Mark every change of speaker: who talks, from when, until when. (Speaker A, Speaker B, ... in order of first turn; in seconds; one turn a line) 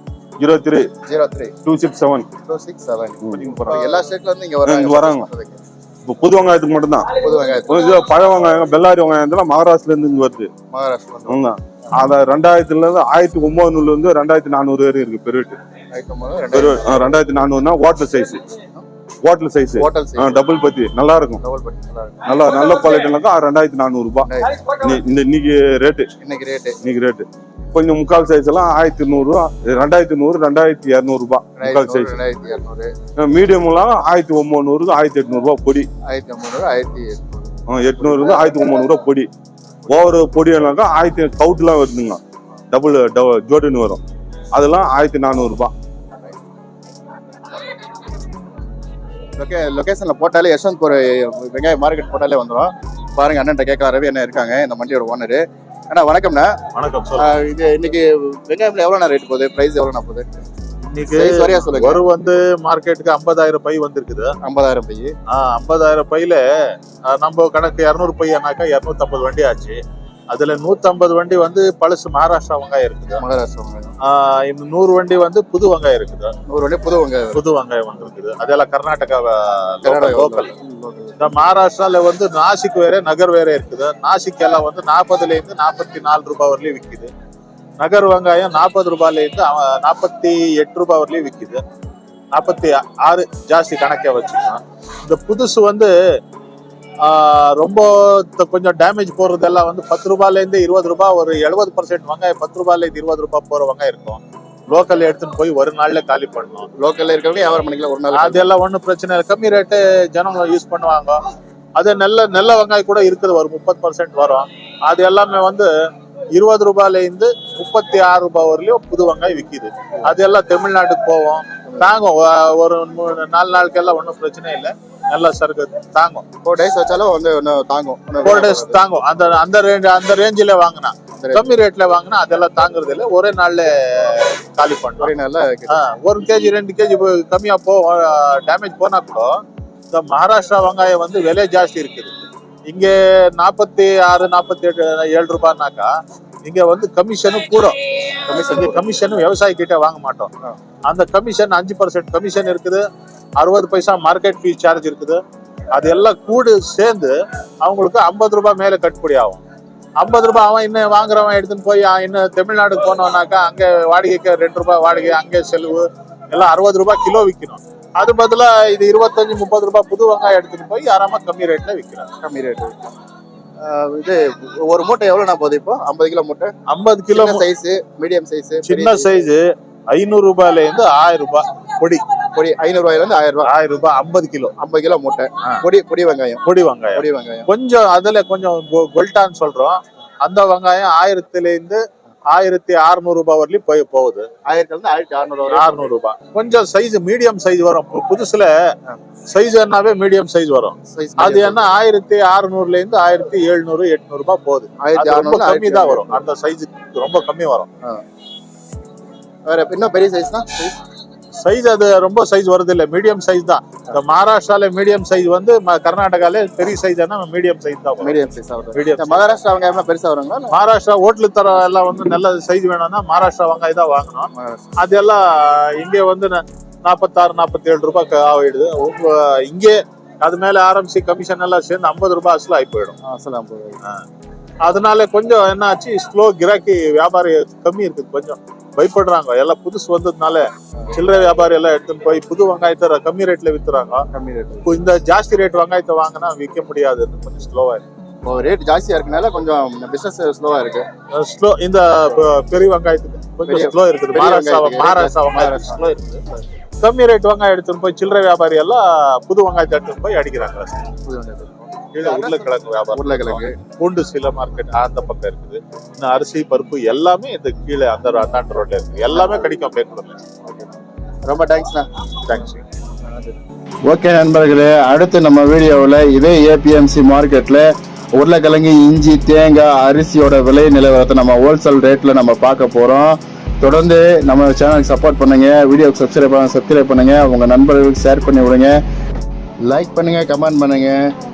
Speaker A: 0.4-0.9
Speaker B: 1.1-1.5
Speaker A: 1.6-2.3
Speaker B: 2.4-5.6
Speaker A: 3.2-4.0
Speaker A: 4.6-5.3
Speaker A: 6.0-10.5
Speaker B: 7.2-7.8
Speaker B: 10.7-11.4
Speaker A: 11.3-15.6
Speaker B: 15.9-17.2
Speaker A: 16.5-18.5
Speaker A: 19.2-21.4
Speaker B: 19.7-20.4
Speaker B: 21.4-22.2
Speaker A: 22.2-26.1
Speaker B: 24.2-24.7
Speaker B: 26.2-26.8
Speaker A: 26.8-32.2
Speaker B: 31.6-32.9
Speaker A: 33.2-35.9
Speaker B: 36.1-38.4
Speaker A: 37.7-39.3
Speaker A: 39.9-42.2
Speaker A: 42.7-44.0
Speaker A: 44.5-45.7
Speaker B: 49.4-56.6
Speaker C: 56.7-57.3
Speaker B: 57.2-60.2
Speaker C: 60.9-64.3
Speaker B: 61.1-62.1
Speaker B: 64.4-65.1
Speaker C: 65.3-66.4
Speaker C: 67.1-69.8
Speaker C: 70.3-73.2
Speaker B: 73.2-73.9
Speaker C: 74.1-76.3
Speaker B: 76.5-77.4
Speaker C: 77.3-80.5
Speaker B: 79.8-81.3
Speaker C: 81.2-87.1
Speaker C: 87.8-91.6
Speaker C: 92.3-95.9
Speaker C: 97.0-106.7
Speaker B: 106.8-108.5
Speaker C: 108.2-111.2
Speaker C: 111.8-115.7
Speaker C: 116.3-126.2
Speaker B: 126.4-128.8
Speaker C: 128.2-135.1
Speaker B: 131.2-131.5
Speaker B: 135.0-135.8
Speaker C: 135.7-139.3
Speaker C: 139.9-142.1
Speaker C: 142.7-145.9
Speaker C: 146.4-150.3
Speaker B: 148.3-149.1
Speaker C: 150.9-152.8
Speaker C: 153.4-155.2
Speaker C: 155.7-159.4
Speaker C: 160.0-172.1
Speaker B: 172.2-172.9
Speaker B: 173.6-176.5
Speaker C: 176.7-177.4
Speaker B: 177.1-179.3
Speaker C: 178.6-182.0
Speaker B: 182.3-183.5
Speaker C: 183.4-184.5
Speaker B: 184.6-186.4
Speaker C: 186.4-194.2
Speaker B: 186.9-187.5
Speaker B: 194.4-195.9
Speaker C: 195.5-198.5
Speaker C: 199.3-207.7
Speaker B: 200.9-201.7
Speaker B: 204.8-206.2
Speaker B: 209.4-210.8
Speaker C: 211.4-219.3
Speaker B: 218.0-220.6
Speaker C: 220.5-225.2
Speaker B: 224.3-224.7
Speaker C: 225.8-232.9
Speaker B: 233.0-233.8
Speaker C: 234.6-244.0
Speaker B: 244.1-244.8
Speaker C: 244.7-247.8
Speaker B: 248.2-250.8
Speaker C: 251.2-256.2
Speaker B: 253.5-256.4
Speaker C: 256.8-260.9
Speaker B: 261.0-263.5
Speaker C: 261.9-270.2
Speaker B: 269.1-269.4
Speaker B: 271.2-271.9
Speaker C: 272.2-272.6
Speaker B: 273.1-273.3
Speaker D: 273.9-288.8
Speaker D: 289.6-291.0